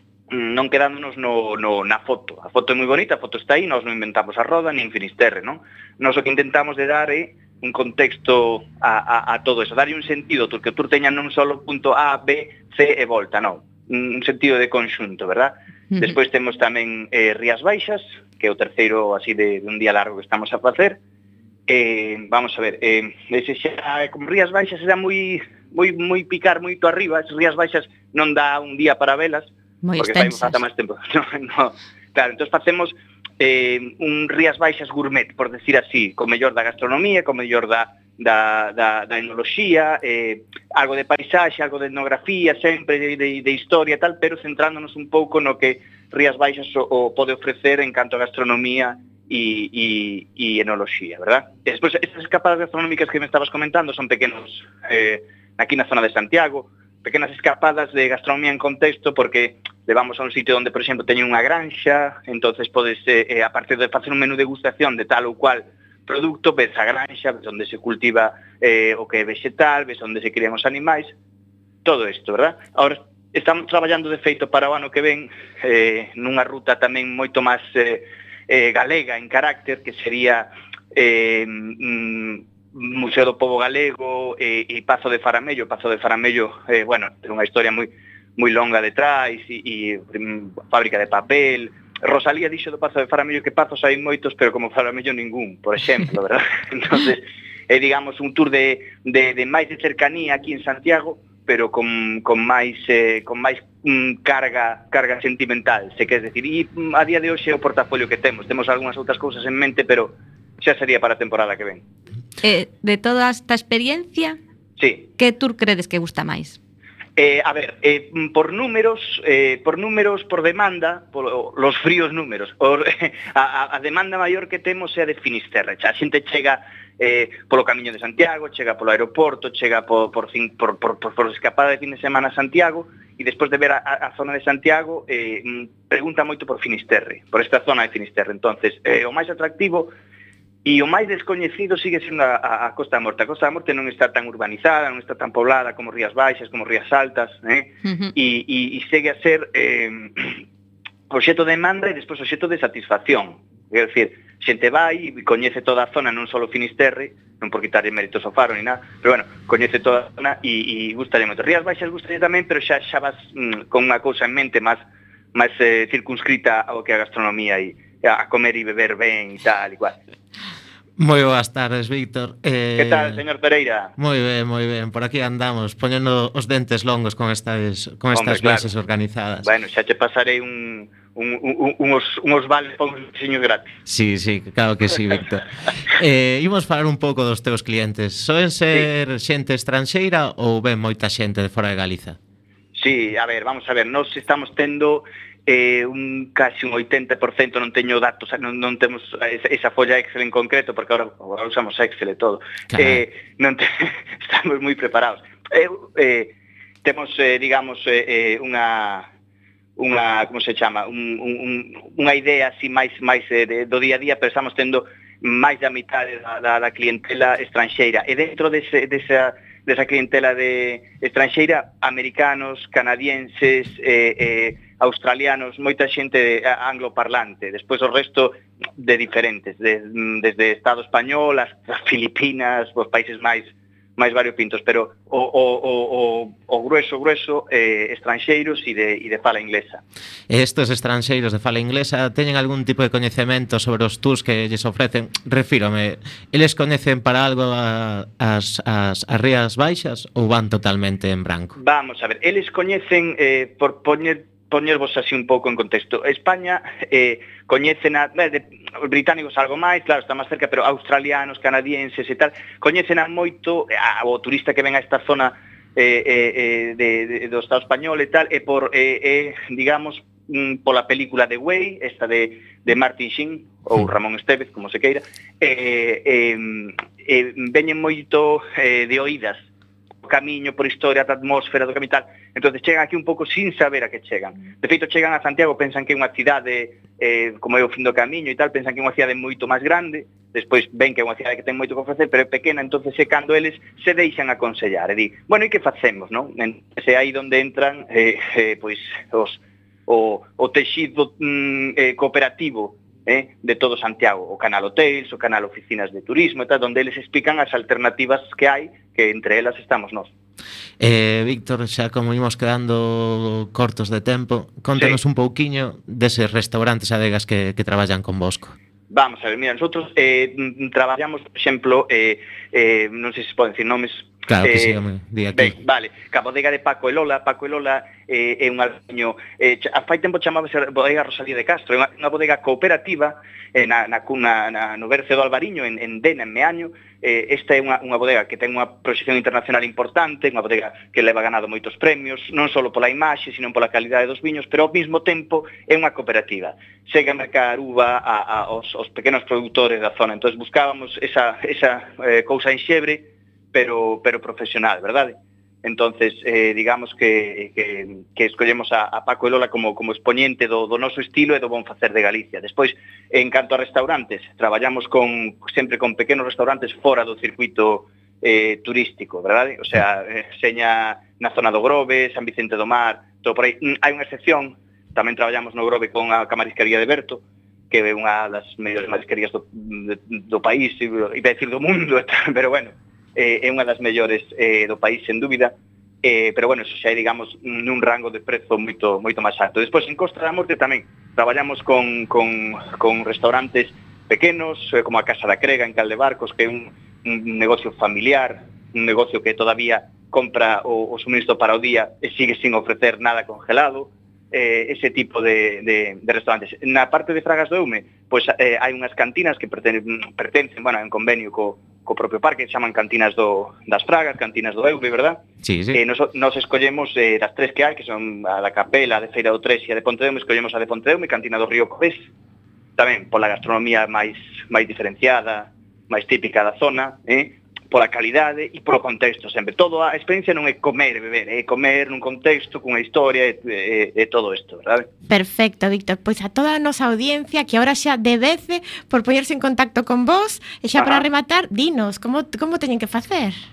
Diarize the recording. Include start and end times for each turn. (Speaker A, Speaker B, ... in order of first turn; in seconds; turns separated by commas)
Speaker A: 0.3-21.0, Speaker A: 21.7-71.1, Speaker B: 29.8-30.6, Speaker A: 71.8-111.8, Speaker B: 112.4-114.4, Speaker A: 114.8-115.1, Speaker B: 115.2-116.6, Speaker A: 117.2-139.9, Speaker A: 140.6-150.4, Speaker A: 151.1-164.8, Speaker A: 165.3-170.0, Speaker C: 171.0-173.2, Speaker A: 172.8-173.9, Speaker C: 174.0-179.5, Speaker A: 178.1-178.7, Speaker A: 179.4-183.7, Speaker C: 183.9-192.2, Speaker A: 192.8-209.1, Speaker C: 202.7-203.0, Speaker A: 209.8-239.8, Speaker C: 240.3-251.6, Speaker A: 251.6-279.4, Speaker A: 280.0-310.1, Speaker C: 310.8-318.6, Speaker A: 318.9-324.8, Speaker C: 324.3-325.6, Speaker A: 325.3-422.1, Speaker C: 415.4-415.8, Speaker A: 422.8-434.9, Speaker D: 435.1-443.4, Speaker A: 440.8-441.1